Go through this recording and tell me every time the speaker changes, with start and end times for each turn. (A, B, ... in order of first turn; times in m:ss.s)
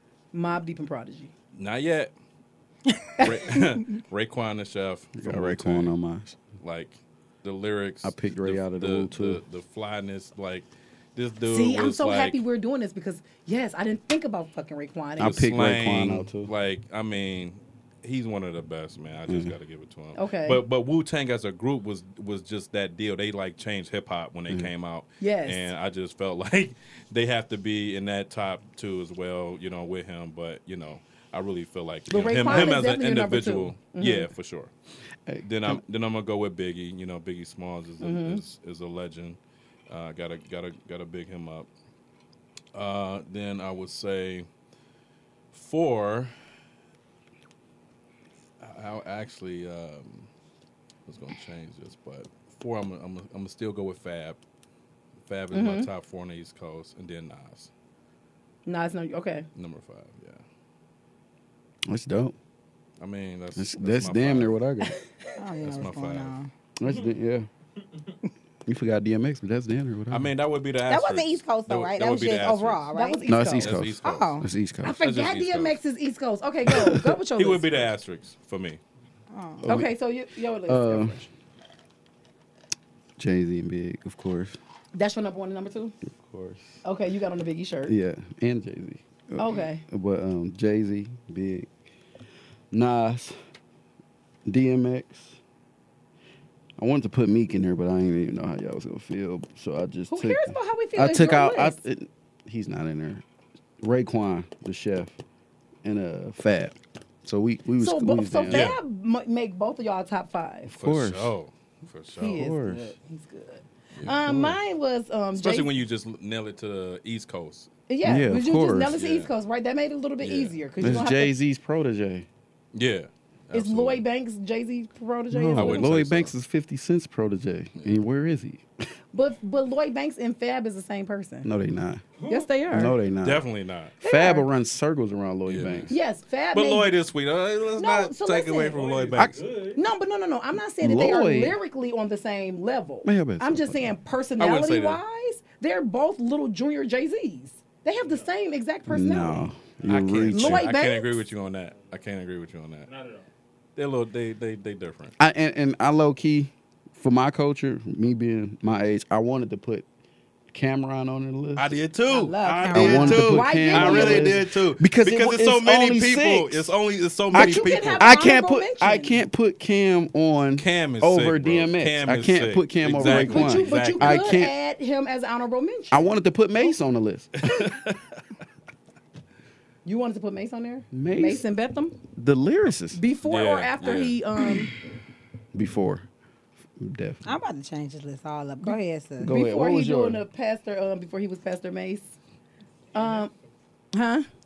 0:00.3-0:01.3 A
0:01.5-0:02.1 B
0:03.2-0:05.9 B
0:05.2-0:06.4 C
0:06.6-0:12.4 B
0:08.0-0:09.4 C
0:11.5-0:15.4 A
0:15.2-0:16.5 C
0:15.2-0:34.7 B
0:19.3-0:19.5 C
0:20.2-0:20.6 A
0:25.2-0:25.7 A
0:32.1-0:34.3 A
0:35.3-0:35.8 C
0:35.4-0:39.4 B
0:38.0-0:38.4 A
0:39.9-0:41.7 B
0:42.7-0:44.5 B
0:45.5-0:46.3 B
0:48.6-0:50.3 B
0:51.1-0:54.4 B
0:55.3-0:57.7 B
0:55.5-0:55.9 A
0:58.7-0:59.5 A
0:59.6-1:00.4 B
1:01.9-1:02.4 C
1:03.0-1:04.6 B
1:03.6-1:05.0 C
1:05.4-1:06.5 D
1:05.6-1:06.3 B
1:06.8-1:07.5 C
1:08.7-1:10.3 C
1:10.1-1:12.8 B
1:10.9-1:13.3 D
1:12.9-1:13.7 A
1:13.3-1:15.0 C
1:13.6-1:14.4 B
1:14.0-1:14.5 D
1:14.8-1:17.9 A
1:15.0-1:15.8 B
1:16.7-1:17.1 C
1:17.4-1:18.8 B
1:19.3-1:19.8 D
1:19.6-1:19.9 C
1:19.7-1:21.3 A
1:20.7-1:21.3 C
1:23.2-1:24.6 C
1:24.9-1:26.0 A
1:26.1-1:26.8 C
1:26.8-1:27.9 A
1:27.9-1:31.7 C
1:29.4-1:29.8 A
1:32.7-1:33.4 C
1:34.5-1:35.4 C
1:36.8-1:43.2 C
1:40.1-1:41.8 A
1:43.8-1:45.2 C
1:45.8-1:48.8 C
1:47.8-1:50.7 A
1:48.5-1:48.8 B
1:50.7-1:51.3 C
1:50.8-1:52.4 B
1:52.2-1:55.7 A
1:52.3-1:52.9 C
1:54.1-1:54.6 C
1:55.4-1:57.7 B
1:57.9-2:01.3 A
1:58.0-1:59.0 C
1:58.9-1:59.3 B
2:00.2-2:01.1 B
2:00.8-2:02.3 C
2:02.7-2:04.0 B
2:03.5-2:05.9 A
2:05.3-2:08.6 C
2:05.6-2:06.3 B
2:09.1-2:11.5 A
2:11.4-2:12.0 C
2:12.2-2:12.5 E
2:12.3-2:13.0 A
2:12.7-2:13.4 C
2:13.2-2:13.9 B
2:14.0-2:14.5 A
2:14.0-2:15.9 C
2:15.5-2:15.9 B
2:15.9-2:16.9 A
2:16.5-2:19.4 B
2:17.8-2:18.8 A
2:18.8-2:19.8 E
2:19.7-2:29.5 A
2:20.8-2:21.6 C
2:23.0-2:23.9 C
2:24.4-2:25.0 B
2:28.0-2:28.3 E
2:28.9-2:30.7 C
2:29.9-2:32.9 B
2:30.3-2:31.2 A
2:32.9-2:33.2 E
2:33.8-2:35.1 B
2:35.2-2:39.8 C
2:40.5-2:41.8 C
2:41.6-2:48.1 B
2:42.1-2:43.4 D
2:42.7-2:46.8 C
2:43.1-2:44.4 A
2:47.3-2:54.5 C
2:47.3-2:49.2 A
2:50.6-2:54.3 B
2:53.0-2:56.7 A
2:55.9-2:57.4 C
2:57.4-2:58.2 B
2:59.8-3:02.0 A
3:00.9-3:01.4 C
3:02.1-3:03.0 C
3:03.0-3:04.7 A
3:03.3-3:04.2 B
3:05.5-3:06.1 C
3:06.8-3:07.3 C
3:07.3-3:09.4 D
3:08.6-3:12.2 A
3:09.2-3:10.2 C
3:12.9-3:13.3 A
3:13.9-3:14.3 A